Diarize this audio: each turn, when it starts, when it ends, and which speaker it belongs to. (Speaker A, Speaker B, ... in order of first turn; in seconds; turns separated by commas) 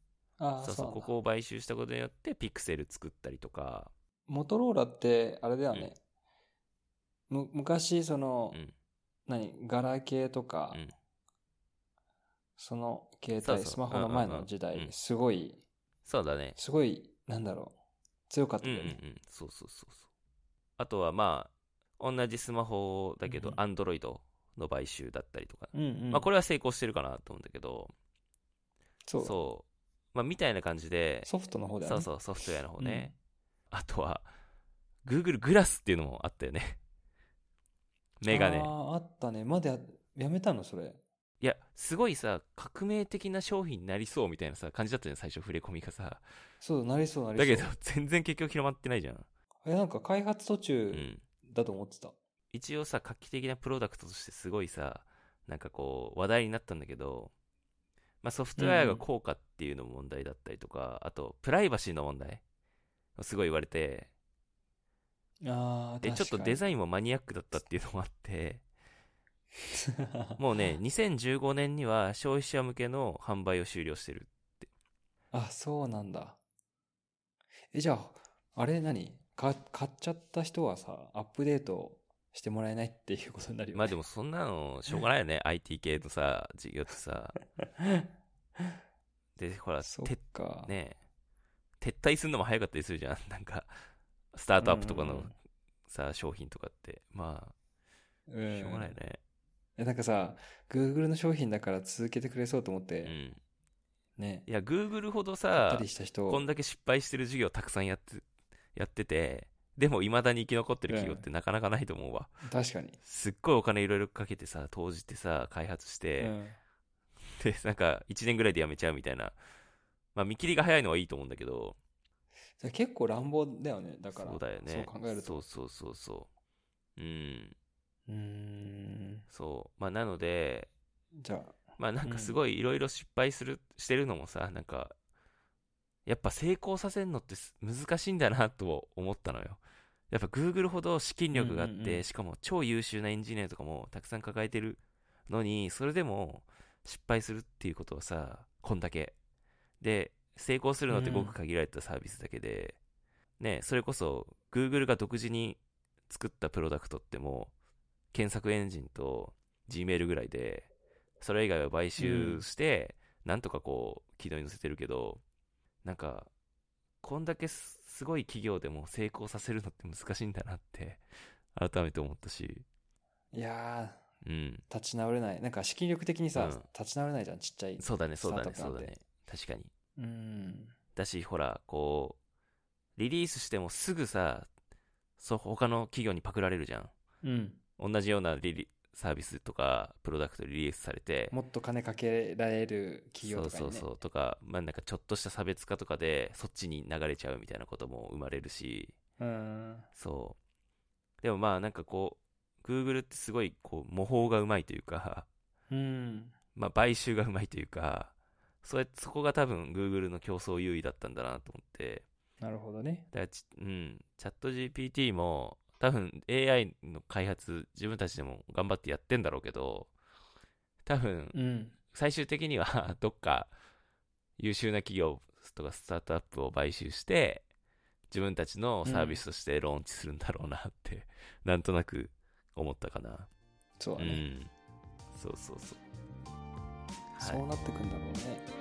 Speaker A: 0.4-1.1, Speaker B: 0.6-3.9, Speaker A: 4.3-6.0, Speaker A: 7.3-8.6, Speaker A: 9.3-10.8, Speaker A: 12.6-15.6, Speaker B: 13.3-14.9, Speaker B: 16.0-16.6, Speaker A: 16.6-17.8, Speaker A: 18.3-19.0, Speaker B: 18.6-20.1, Speaker B: 20.8-27.9, Speaker A: 23.2-23.6, Speaker A: 25.7-26.3, Speaker A: 29.1-29.4, Speaker B: 29.2-31.3, Speaker A: 31.2-32.1, Speaker B: 31.8-33.1, Speaker A: 32.8-33.1, Speaker B: 33.7-34.3, Speaker B: 35.0-36.8, Speaker B: 38.2-38.7, Speaker A: 38.3-41.0, Speaker B: 41.4-46.2, Speaker A: 46.6-47.7, Speaker B: 47.4-49.2, Speaker A: 49.6-52.1, Speaker B: 50.9-51.2, Speaker B: 52.5-57.3, Speaker B: 58.2-62.4, Speaker A: 58.5-59.0, Speaker B: 63.1-64.1, Speaker A: 65.4-66.6, Speaker B: 66.0-68.6, Speaker B: 70.4-74.6, Speaker A: 75.3-76.4, Speaker A: 77.7-84.0, Speaker B: 83.7-87.4, Speaker B: 89.4-91.0, Speaker A: 89.8-90.7, Speaker B: 91.8-93.7, Speaker B: 94.3-95.3, Speaker A: 94.6-95.3, Speaker B: 95.9-97.5, Speaker A: 98.3-99.0, Speaker B: 98.5-99.2, Speaker A: 99.8-103.1, Speaker B: 103.0-103.4, Speaker A: 104.2-104.5, Speaker B: 104.5-112.3, Speaker A: 105.5-106.5, Speaker A: 110.9-111.2, Speaker A: 112.4-113.0, Speaker B: 113.0-116.3, Speaker A: 116.2-116.6, Speaker B: 117.4-119.4, Speaker B: 120.1-121.8, Speaker A: 122.6-125.5, Speaker B: 124.1-126.3, Speaker B: 127.0-127.5, Speaker A: 128.1-129.2, Speaker B: 129.3-130.7, Speaker A: 131.2-132.4, Speaker B: 131.8-134.9, Speaker B: 136.1-149.1, Speaker A: 141.3-142.1, Speaker B: 149.8-152.8, Speaker A: 150.9-151.3, Speaker B: 153.4-157.5, Speaker B: 158.1-165.2, Speaker A: 162.0-162.4, Speaker B: 165.8-166.3, Speaker B: 167.0-172.7, Speaker A: 173.3-174.0, Speaker B: 174.2-174.6, Speaker A: 174.7-178.9, Speaker B: 176.3-176.7, Speaker B: 177.8-179.7, Speaker A: 180.0-180.7, Speaker B: 180.9-182.2, Speaker B: 183.0-184.5, Speaker B: 185.2-186.9, Speaker A: 187.2-187.6, Speaker B: 187.8-191.3, Speaker A: 191.3-193.9, Speaker B: 193.2-198.9, Speaker A: 199.2-199.9, Speaker B: 199.9-200.4, Speaker B: 201.2-205.3, Speaker A: 205.7-206.3, Speaker B: 206.6-212.0, Speaker A: 212.4-213.1, Speaker B: 213.1-219.9, Speaker B: 220.8-221.3, Speaker A: 221.3-221.8, Speaker B: 221.9-223.5, Speaker B: 224.4-227.4, Speaker B: 228.1-233.3, Speaker A: 228.8-229.2, Speaker A: 233.8-234.2, Speaker B: 234.0-234.5, Speaker B: 235.1-235.8, Speaker B: 237.1-237.4, Speaker A: 237.2-238.5